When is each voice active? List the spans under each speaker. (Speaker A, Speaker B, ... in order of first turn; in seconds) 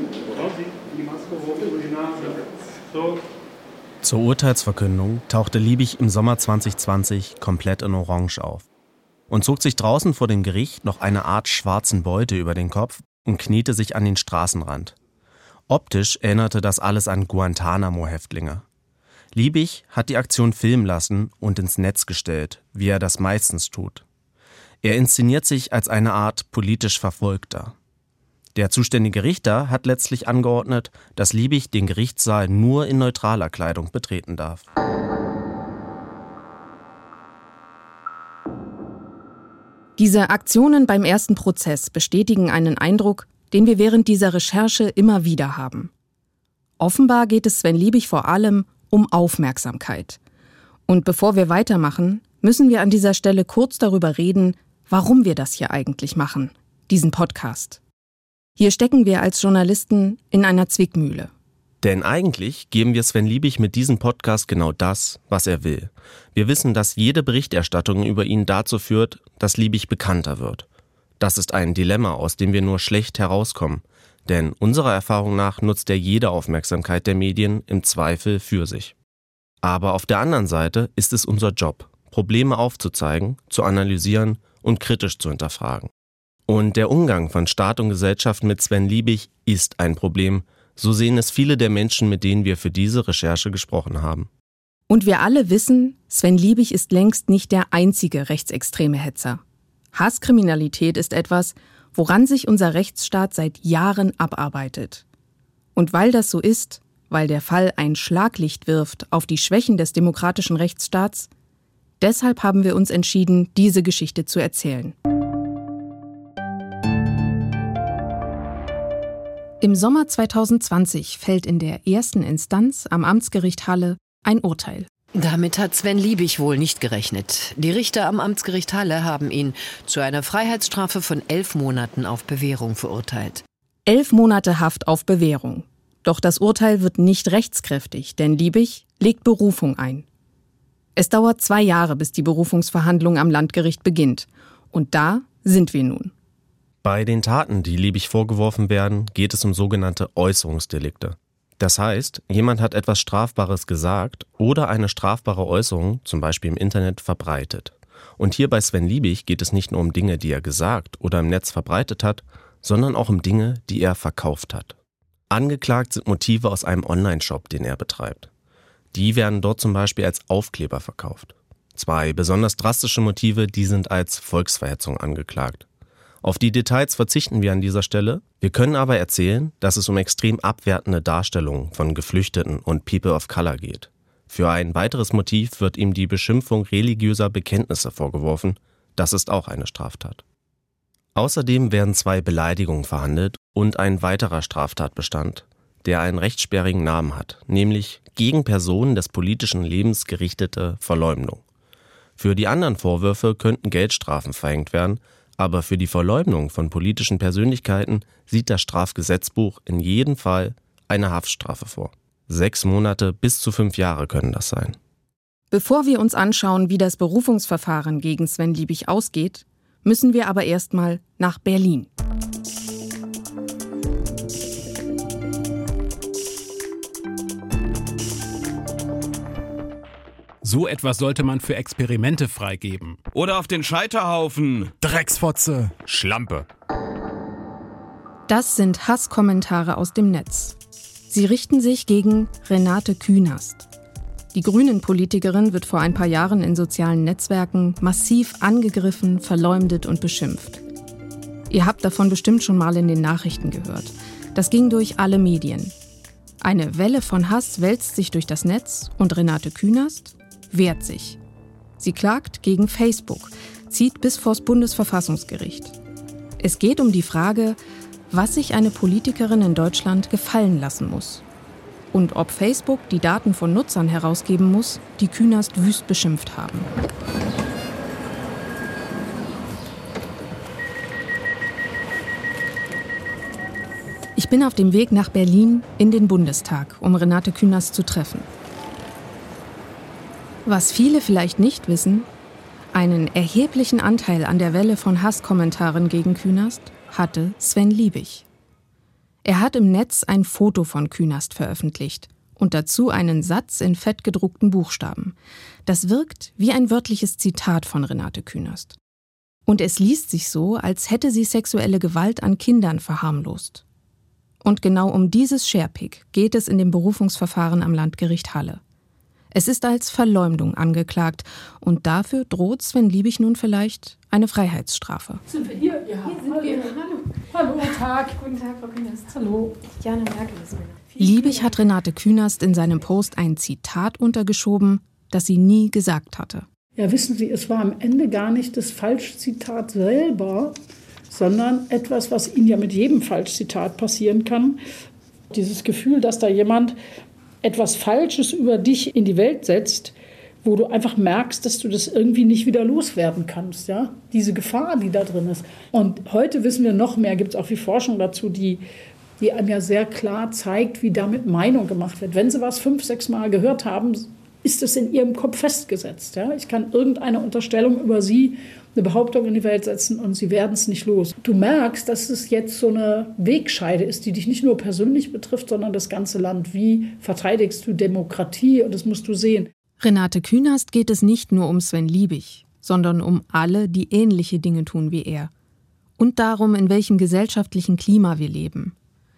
Speaker A: 4.0-8.7, 9.3-15.0, 15.7-18.6, 19.3-24.0, 24.8-27.8, 28.6-34.7, 61.8-70.7, 71.2-79.0, 79.6-85.9, 86.5-94.3, 146.8-164.8, 165.3-168.3, 168.9-175.7, 176.2-190.2, 191.2-201.4, 202.2-214.8
Speaker B: 40.0-45.9, 46.8-50.2, 50.9-57.8, 58.6-61.3, 94.9-99.4, 99.9-105.0, 105.8-111.3, 112.0-115.0, 119.6-124.9, 133.9-140.1, 141.0-146.1, 215.5-221.9, 238.3-240.6, 241.1-243.7, 244.3-250.6, 251.5-255.7, 256.4-261.2, 261.8-265.8, 266.4-267.6, 268.1-271.2, 271.9-276.7, 284.2-288.3, 290.4-292.1, 292.7-298.2, 299.2-305.1, 305.7-308.8, 309.5-313.6, 314.4-318.6, 319.3-325.2, 329.8-336.5, 379.8-385.3, 386.0-388.8
Speaker C: 125.1-133.4
Speaker D: 230.4-233.1, 234.8-235.8
Speaker E: 233.1-234.8, 235.8-236.5
Speaker F: 325.3-330.1, 336.8-340.6, 341.1-344.6, 345.3-346.8, 347.4-358.6, 359.2-379.5